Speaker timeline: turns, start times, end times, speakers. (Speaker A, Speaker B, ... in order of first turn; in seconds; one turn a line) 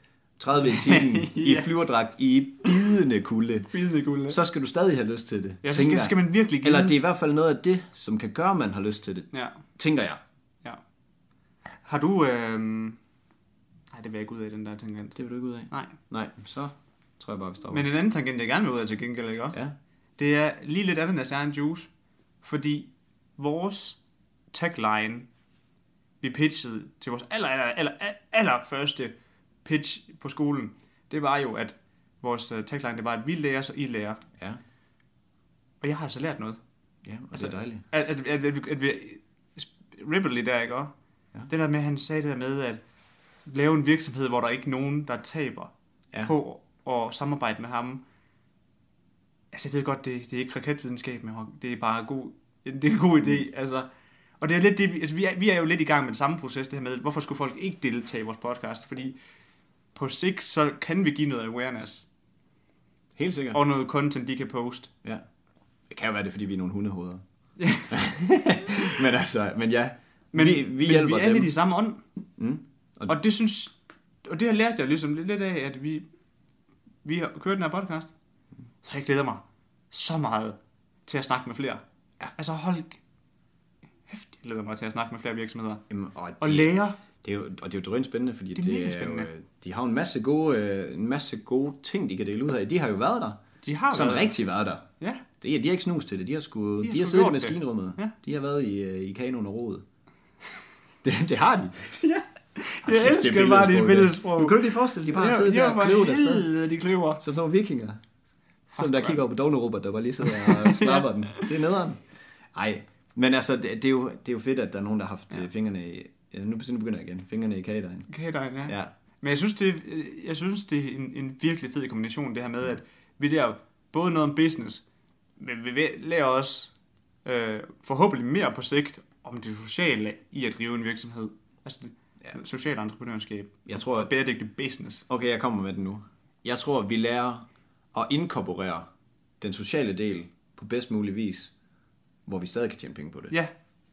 Speaker A: 0.4-3.7
Speaker B: 0.6-1.7
Speaker B: 3.7-4.4
Speaker A: 4.3-10.2
Speaker B: 5.6-6.9
Speaker B: 9.3-9.6
Speaker B: 11.8-13.0
Speaker B: 13.9-15.2
Speaker A: 15.2-17.9
Speaker B: 15.7-15.9
Speaker B: 17.7-19.6
Speaker B: 20.2-21.9
Speaker B: 22.4-24.0
Speaker B: 24.5-25.3
Speaker B: 26.2-29.1
Speaker B: 29.6-34.2
Speaker B: 35.8-36.6
Speaker A: 37.0-37.9
Speaker B: 37.3-40.9
Speaker B: 41.5-42.8
Speaker B: 43.5-45.7
Speaker B: 46.2-48.0
Speaker B: 49.5-53.9
Speaker B: 54.4-59.1
Speaker B: 59.9-62.1
Speaker A: 63.1-63.6
Speaker B: 63.5-64.9
Speaker A: 65.9-67.2
Speaker B: 67.6-67.9
Speaker A: 67.9-71.5
Speaker B: 70.3-72.0
Speaker A: 72.4-73.2
Speaker B: 73.1-73.7
Speaker B: 74.2-76.0
Speaker B: 77.0-78.1
Speaker B: 78.8-81.8
Speaker B: 82.4-83.0
Speaker B: 84.1-85.8
Speaker A: 85.9-93.4
Speaker B: 86.4-87.0
Speaker B: 88.5-89.3
Speaker B: 93.6-94.3
Speaker A: 93.9-94.8
Speaker A: 95.4-99.8
Speaker B: 96.8-98.1
Speaker A: 101.0-101.9
Speaker B: 102.0-107.2
Speaker A: 102.8-106.5
Speaker A: 107.2-108.0
Speaker A: 108.7-112.0
Speaker B: 108.8-109.2
Speaker B: 110.2-111.5
Speaker A: 112.5-118.1
Speaker B: 118.1-124.8
Speaker B: 125.4-126.7
Speaker B: 127.2-135.1
Speaker A: 133.7-134.1
Speaker A: 135.1-138.9
Speaker A: 139.4-141.5
Speaker A: 142.3-143.3